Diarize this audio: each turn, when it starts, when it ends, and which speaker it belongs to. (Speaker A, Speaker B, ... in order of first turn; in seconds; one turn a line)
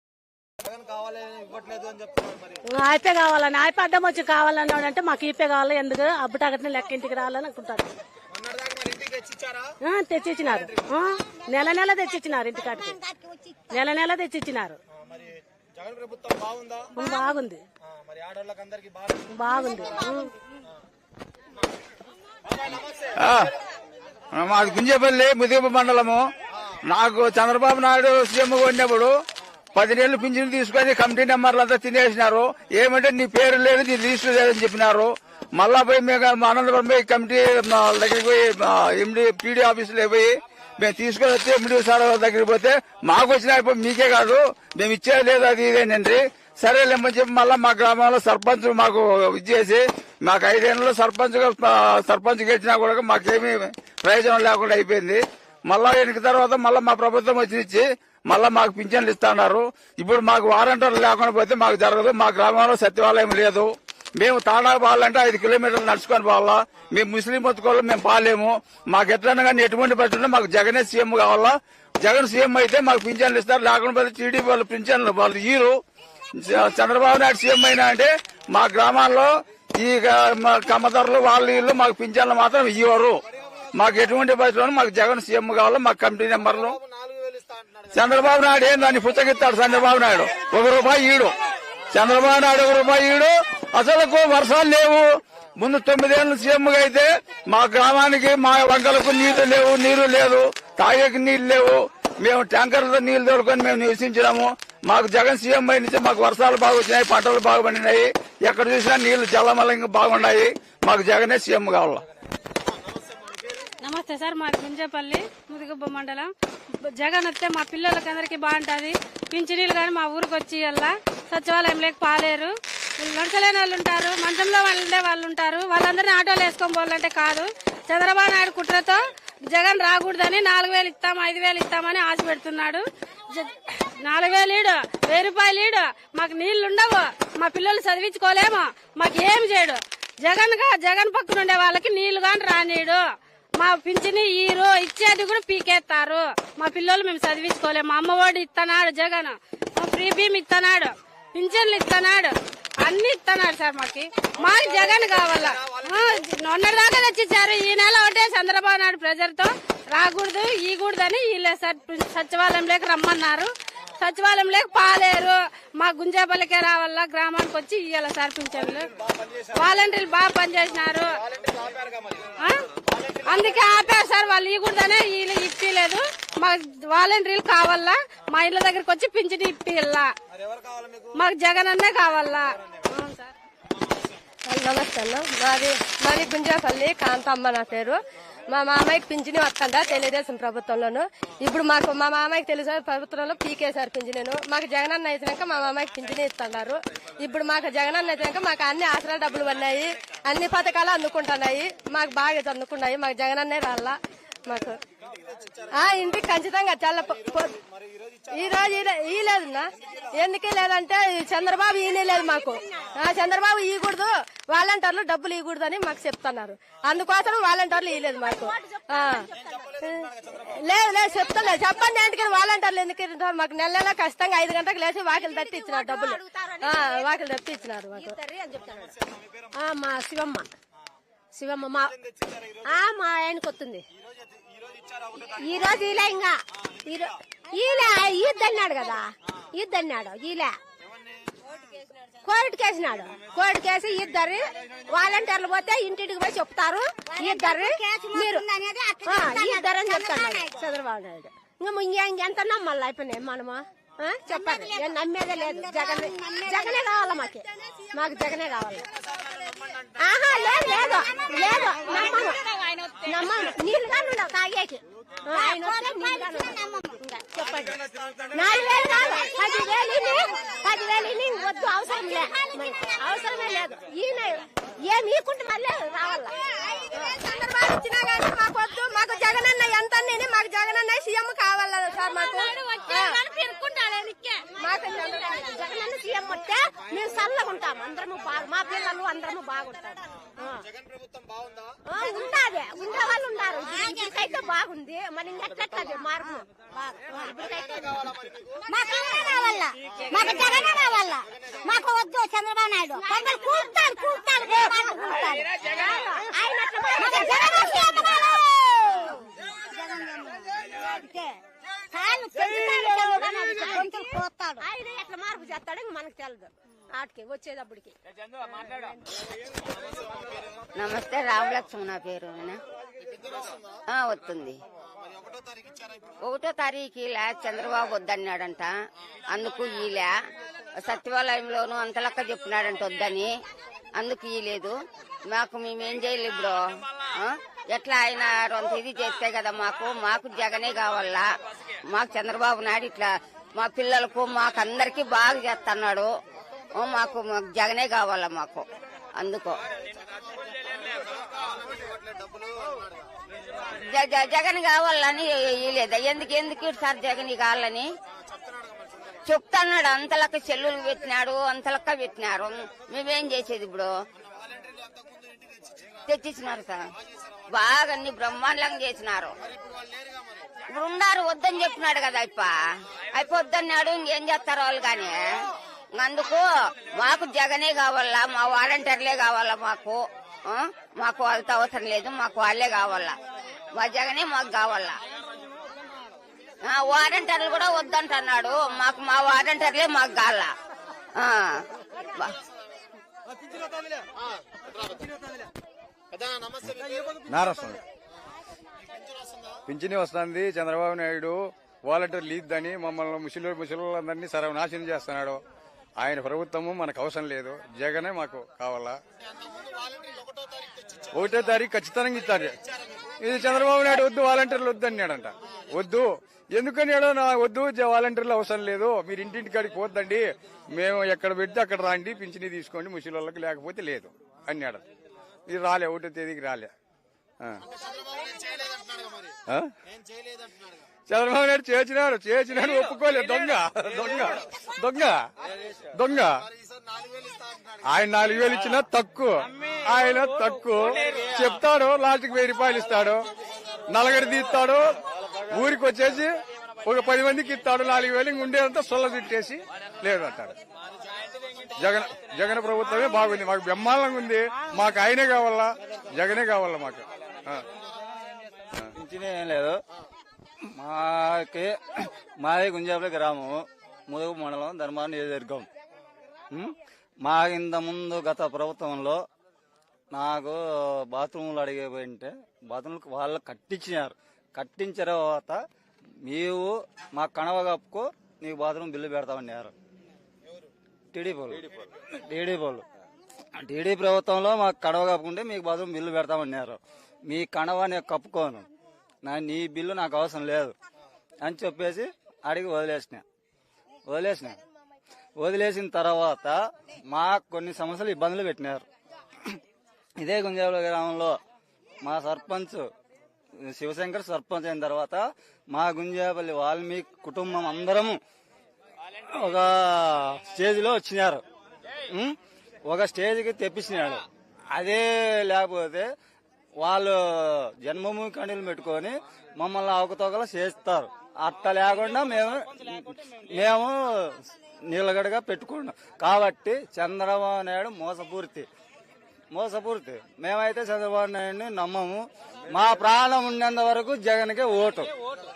Speaker A: 0.7-2.6
Speaker B: 2.8-7.9
Speaker A: 8.3-9.7
Speaker B: 9.8-12.9
Speaker C: 11.0-13.9
Speaker B: 13.7-14.8
Speaker A: 15.0-16.9
Speaker B: 16.9-17.6
Speaker C: 17.0-17.3
Speaker A: 17.9-19.2
Speaker B: 19.3-20.3
Speaker C: 19.4-20.4
Speaker A: 22.4-23.5
Speaker D: 23.1-23.5
Speaker D: 24.3-26.2
Speaker D: 26.9-29.1
Speaker D: 29.7-75.8
Speaker D: 76.4-83.2
Speaker D: 83.7-86.8
Speaker A: 86.5-88.1
Speaker D: 87.9-91.3
Speaker D: 91.9-95.0
Speaker D: 95.6-112.0
Speaker A: 112.7-113.7
Speaker E: 113.8-116.3
Speaker E: 116.8-143.0
Speaker E: 143.6-168.9
Speaker A: 154.4-156.2
Speaker A: 169.0-169.6
Speaker E: 169.5-171.2
Speaker A: 171.0-172.4
Speaker A: 172.9-173.3
Speaker E: 173.2-180.1
Speaker A: 180.3-181.1
Speaker E: 181.1-183.3
Speaker F: 184.5-188.0
Speaker F: 188.5-204.8
Speaker A: 205.0-206.1
Speaker F: 205.7-207.6
Speaker A: 207.6-208.6
Speaker F: 208.3-219.3
Speaker G: 218.2-219.6
Speaker A: 219.3-220.5
Speaker F: 220.6-228.1
Speaker G: 225.1-227.2
Speaker G: 227.9-228.9
Speaker A: 228.9-229.5
Speaker G: 229.5-230.4
Speaker G: 231.3-231.9
Speaker A: 231.7-232.6
Speaker G: 232.6-233.8
Speaker A: 234.0-235.7
Speaker G: 235.2-240.6
Speaker G: 242.2-248.4
Speaker C: 247.1-250.6
Speaker G: 249.1-258.8
Speaker C: 254.3-256.8
Speaker A: 259.0-259.9
Speaker G: 260.0-267.8
Speaker C: 260.6-262.3
Speaker C: 265.3-267.0
Speaker G: 268.3-276.4
Speaker G: 276.9-278.7
Speaker F: 278.1-283.1
Speaker G: 282.1-290.6
Speaker A: 290.6-291.8
Speaker G: 291.9-298.0
Speaker C: 293.8-294.1
Speaker A: 297.3-299.0
Speaker C: 298.7-305.6
Speaker G: 300.1-300.8
Speaker A: 301.3-301.7
Speaker G: 303.0-309.1
Speaker C: 306.9-309.2
Speaker C: 309.7-311.3
Speaker C: 311.9-314.6
Speaker G: 312.8-314.0
Speaker G: 314.6-317.9
Speaker A: 319.6-320.6
Speaker H: 320.8-322.6
Speaker A: 323.0-323.8
Speaker H: 323.9-324.6
Speaker A: 324.9-326.1
Speaker H: 326.2-328.7
Speaker H: 329.3-330.1
Speaker H: 330.8-333.3
Speaker H: 334.0-334.7
Speaker H: 335.3-336.6
Speaker H: 337.1-341.3
Speaker H: 341.9-346.1
Speaker H: 346.7-348.6
Speaker H: 349.2-349.6
Speaker A: 350.1-353.1
Speaker H: 353.8-357.9
Speaker A: 358.3-359.1
Speaker H: 359.2-363.9
Speaker A: 364.1-366.1
Speaker H: 366.1-366.8
Speaker A: 367.0-367.4
Speaker H: 367.5-369.3
Speaker A: 369.4-370.5
Speaker H: 370.7-372.5
Speaker H: 373.1-375.3
Speaker H: 376.0-383.1
Speaker H: 383.7-385.0
Speaker H: 386.6-390.5
Speaker H: 391.1-391.6
Speaker A: 394.2-395.1
Speaker A: 396.1-397.2
Speaker I: 397.3-397.8
Speaker A: 398.8-399.6
Speaker I: 399.7-405.4
Speaker I: 406.0-409.0
Speaker A: 409.2-411.6
Speaker I: 411.1-412.6
Speaker A: 412.4-413.1
Speaker I: 413.2-424.8
Speaker I: 425.5-426.7
Speaker A: 427.6-430.9
Speaker I: 431.1-435.2
Speaker I: 435.9-436.4
Speaker A: 436.4-438.2
Speaker I: 437.9-443.2
Speaker I: 443.9-444.9
Speaker I: 445.5-446.3
Speaker I: 446.8-450.5
Speaker I: 451.8-457.6
Speaker J: 458.9-459.8
Speaker J: 460.7-465.6
Speaker J: 466.5-469.2
Speaker J: 470.1-475.6
Speaker J: 476.2-479.7
Speaker J: 481.1-482.8
Speaker J: 483.6-488.6
Speaker J: 489.2-490.7
Speaker J: 491.4-493.2
Speaker J: 494.1-494.6
Speaker J: 495.4-498.8
Speaker J: 500.2-501.4
Speaker J: 502.0-502.9
Speaker J: 503.6-508.2
Speaker J: 509.3-511.4
Speaker J: 512.1-514.2
Speaker J: 514.7-516.0
Speaker J: 516.8-528.6
Speaker J: 529.5-535.1